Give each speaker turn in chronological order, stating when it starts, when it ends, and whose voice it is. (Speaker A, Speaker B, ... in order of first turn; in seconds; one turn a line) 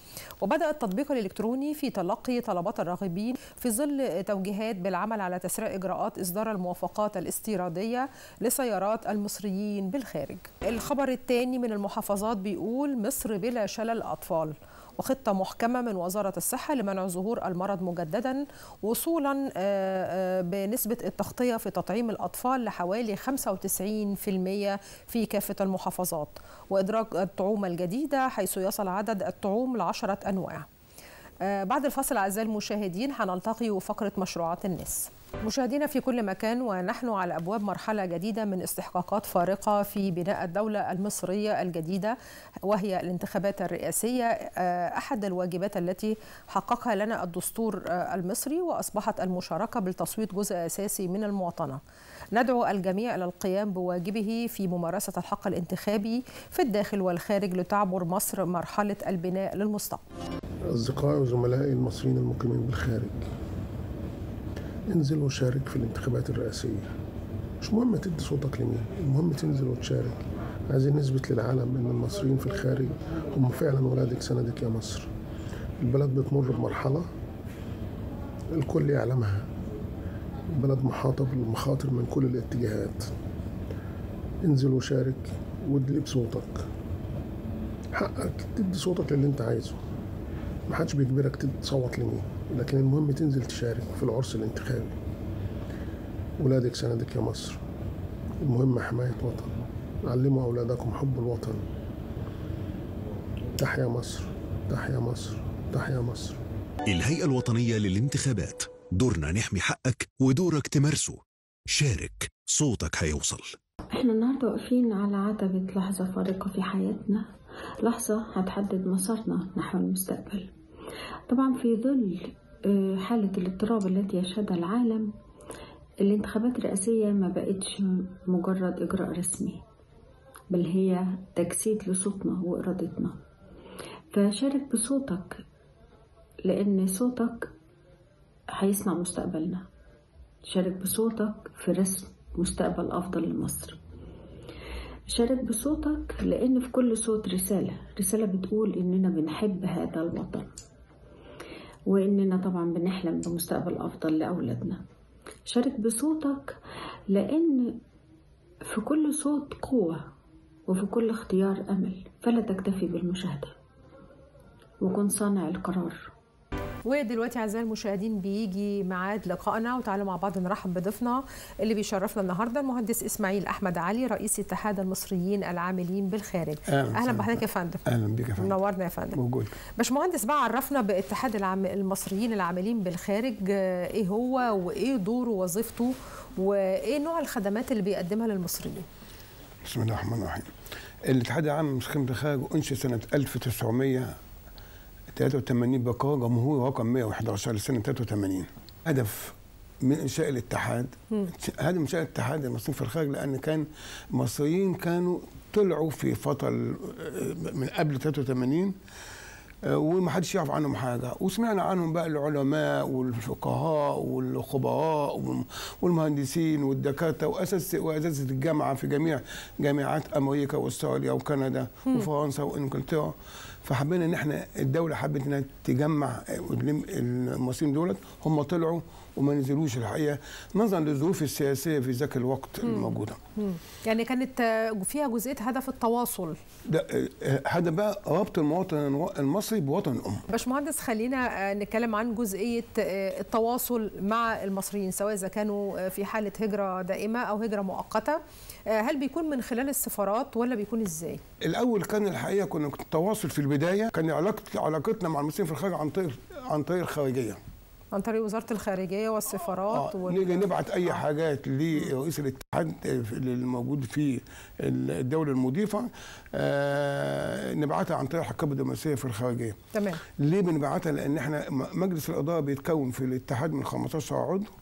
Speaker A: 0.4-30.6
Speaker A: 31.4-42.1
Speaker A: 42.7-51.8
Speaker A: 52.3-60.0
Speaker B: 60.7-63.2
Speaker B: 64.9-66.9
Speaker B: 67.6-75.1
Speaker B: 75.8-77.0
Speaker B: 78.5-79.5
Speaker B: 80.5-83.1
Speaker B: 84.4-86.6
Speaker B: 87.9-89.8
Speaker B: 90.7-94.9
Speaker B: 96.4-97.6
Speaker B: 98.4-99.5
Speaker B: 100.0-101.6
Speaker B: 103.6-106.4
Speaker C: 106.9-111.2
Speaker C: 111.8-113.5
Speaker D: 113.9-117.3
Speaker D: 117.8-120.5
Speaker D: 121.3-125.1
Speaker D: 126.0-129.6
Speaker D: 130.5-133.2
Speaker D: 134.1-135.4
Speaker D: 136.4-137.5
Speaker D: 138.6-139.7
Speaker D: 140.5-143.8
Speaker D: 145.1-150.5
Speaker D: 151.9-154.8
Speaker D: 155.5-156.6
Speaker D: 157.1-157.8
Speaker D: 158.7-160.0
Speaker D: 160.7-163.5
Speaker D: 164.8-166.0
Speaker A: 166.8-177.8
Speaker E: 176.7-178.6
Speaker A: 178.4-179.2
Speaker E: 179.1-179.5
Speaker A: 179.8-188.8
Speaker E: 189.6-190.5
Speaker E: 191.1-194.1
Speaker E: 195.1-208.7
Speaker E: 209.7-223.1
Speaker E: 223.6-233.2
Speaker A: 232.7-236.3
Speaker E: 236.7-240.2
Speaker A: 240.3-248.2
Speaker A: 248.7-251.2
Speaker E: 251.4-257.4
Speaker A: 257.9-261.0
Speaker E: 259.7-269.6
Speaker A: 269.7-270.0
Speaker E: 270.2-274.5